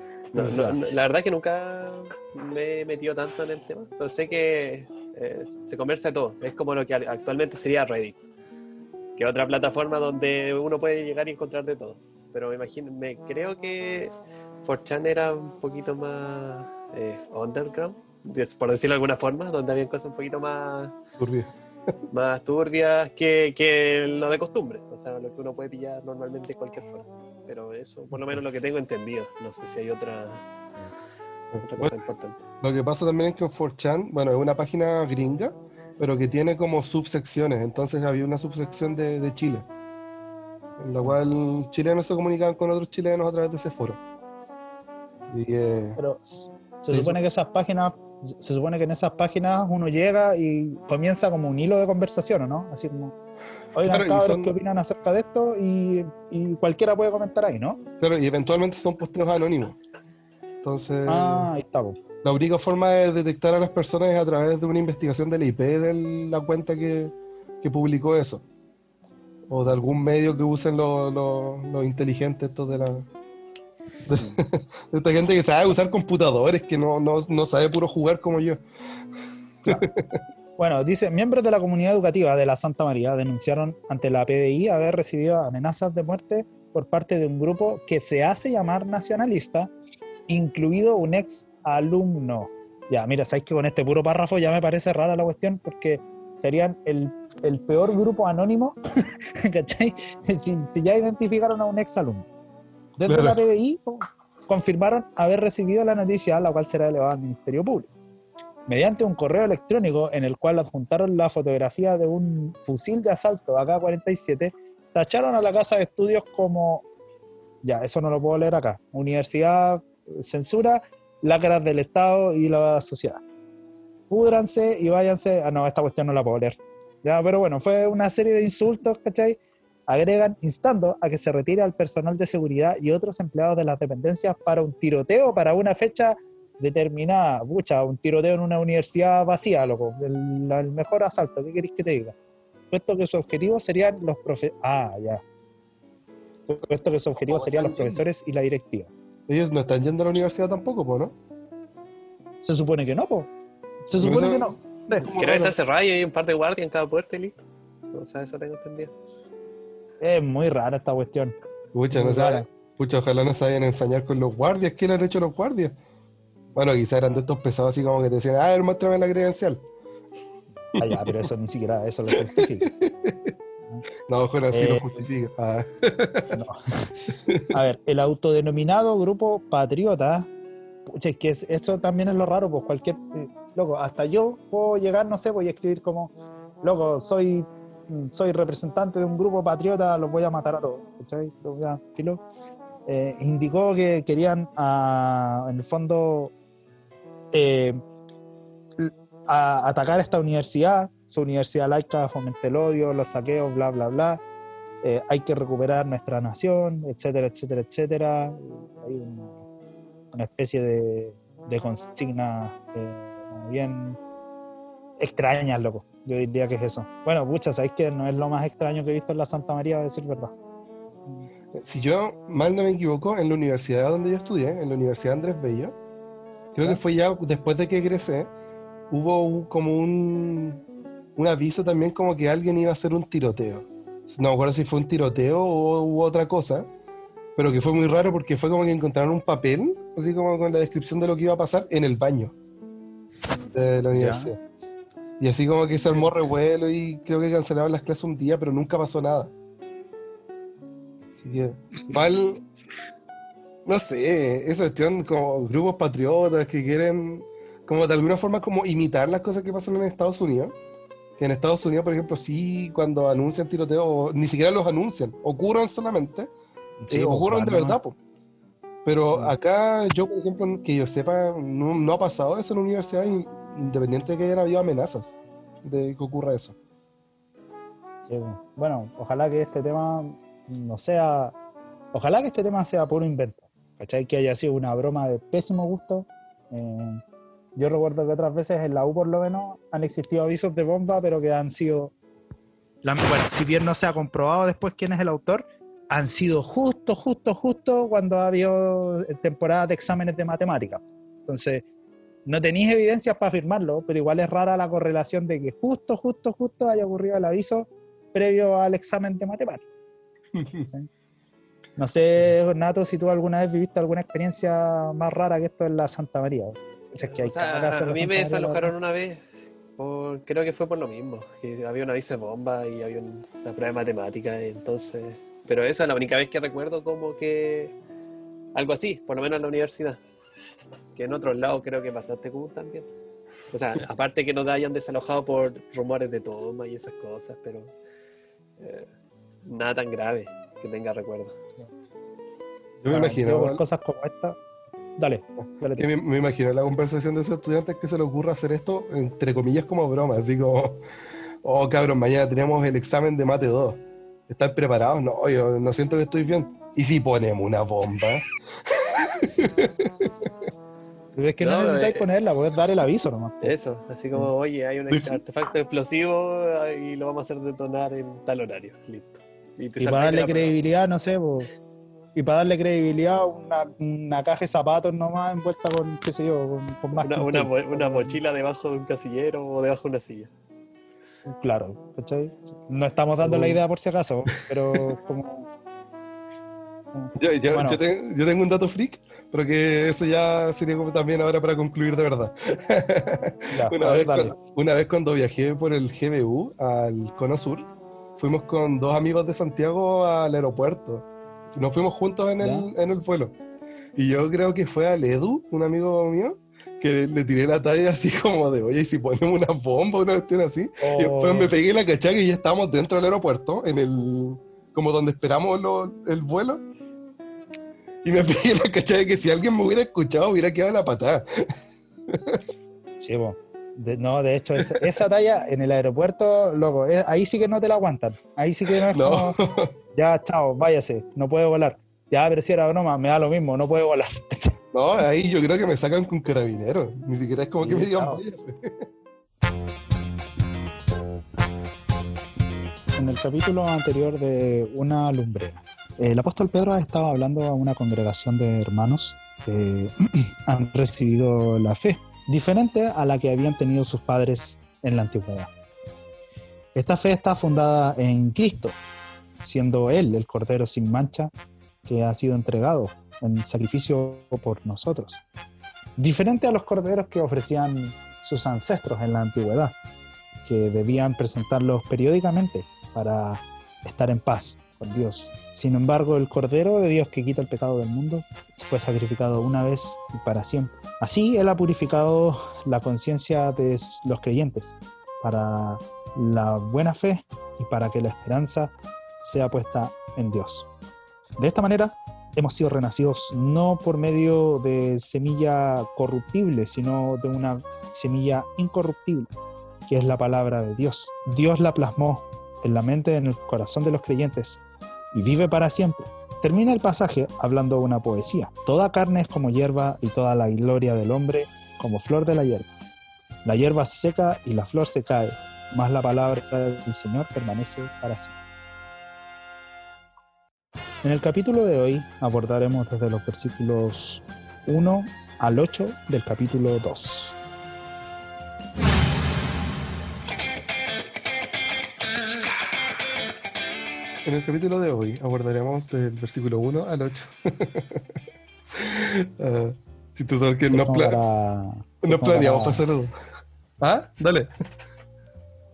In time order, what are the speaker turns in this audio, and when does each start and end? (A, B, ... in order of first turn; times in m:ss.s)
0:00.3-0:08.2 A
0:00.4-0:00.8 B
0:09.2-0:21.0 A
0:21.2-0:21.9 C
0:22.1-0:30.4 A
0:31.5-0:32.0 C
0:31.6-0:32.4 A
0:32.6-0:39.7 C
0:40.8-0:44.0 C
0:45.3-0:46.0 C
0:46.0-0:53.1 B
0:46.9-0:47.2 C
0:53.7-0:57.8 B
0:53.8-0:54.5 C
0:58.0-0:59.8 C
1:00.6-1:01.5 C
1:01.0-1:02.0 B
1:02.2-1:08.4 C
1:09.5-1:13.1 C
1:14.0-1:18.6 C
1:19.6-1:20.2 C
1:20.6-1:29.7 B
1:30.3-1:38.8 B
1:39.4-1:42.3 B
1:43.0-1:47.9 B
1:43.1-1:43.4 C
1:48.7-1:56.8 B
1:57.6-2:03.2 B
2:04.1-2:22.1 B
2:22.7-2:25.2 B
2:26.5-2:28.9 B
2:27.3-2:28.0 A
2:29.3-2:31.1 C
2:32.4-2:33.3 B
2:33.9-2:35.2 B
2:34.0-2:35.5 C
2:35.0-2:37.4 A
2:37.9-2:38.9 A
2:40.0-2:41.3 B
2:41.7-2:45.8 C
2:41.9-2:42.4 B
2:46.5-2:49.6 C
2:50.8-2:51.3 C
2:50.8-2:52.7 B
2:52.1-2:53.3 C
2:54.1-2:56.4 C
2:54.5-2:55.1 B
2:56.3-2:56.9 B
2:57.2-2:57.5 C
2:57.5-3:00.3 B
3:00.9-3:12.2 B
3:12.8-3:16.3 B
3:17.3-3:17.8 B
3:18.8-3:24.2 B
3:24.8-3:29.4 B
3:30.1-3:34.0 B
3:35.0-3:40.3 B
3:41.5-3:45.7 C
3:46.5-3:48.3 C
3:48.9-3:50.6 C
3:51.2-3:56.7 C
3:57.4-4:02.3 C
4:03.5-4:04.4 C
4:03.9-4:04.3 B
4:05.2-4:09.3 C
4:11.2-4:12.4 C
4:13.6-4:20.5 C
4:21.2-4:26.3 C
4:26.8-4:27.8 B
4:26.9-4:28.0 C
4:28.8-4:36.5 C
4:38.1-4:41.3 B
4:41.9-4:47.0 B
4:47.6-4:51.9 B
4:52.8-5:01.6 B
5:02.2-5:09.6 B
5:10.3-5:10.7 C
5:11.8-5:18.7 B
5:17.0-5:19.2 A
5:19.8-5:27.7 A
5:28.5-5:30.0 A
5:30.9-5:32.9 A
5:33.5-5:37.7 A
5:38.6-5:38.9 A
5:39.4-5:41.4 A
5:42.8-5:43.6 C
5:42.9-5:44.4 B
5:45.0-5:45.8 B
5:45.8-5:50.8 C
5:51.4-6:00.3 C
6:01.1-6:03.5 B
6:01.4-6:02.1 A
6:03.4-6:10.5 A
6:04.9-6:05.2 C
6:09.8-6:11.5 B
6:12.1-6:18.2 B
6:17.0-6:20.3 A
6:21.2-6:25.5 B
6:26.9-6:27.8 B
6:27.2-6:43.3 C
6:33.5-6:34.3 B
6:42.4-6:42.7 B
6:44.0-6:56.6 C
6:50.8-6:51.5 B
6:58.0-7:01.5 C
7:02.1-7:02.4 C
7:03.0-7:09.4 B
7:04.6-7:04.8 C
7:08.7-7:09.7 C
7:09.9-7:14.6 B
7:14.7-7:18.8 C
7:17.6-7:18.2 B
7:22.9-7:35.5 B
7:36.7-7:38.8 B
7:39.4-7:41.3 B
7:41.8-7:45.2 B
7:46.0-7:49.7 B
7:50.4-8:10.7 B
8:11.4-8:19.3 B
8:19.9-8:24.6 B
8:25.1-8:32.7 B
8:33.4-8:38.3 B
8:41.0-8:47.4 B
8:54.2-8:58.1 C
8:58.7-9:01.2 C
9:00.7-9:02.8 B
9:02.0-9:03.2 C
9:03.8-9:04.5 C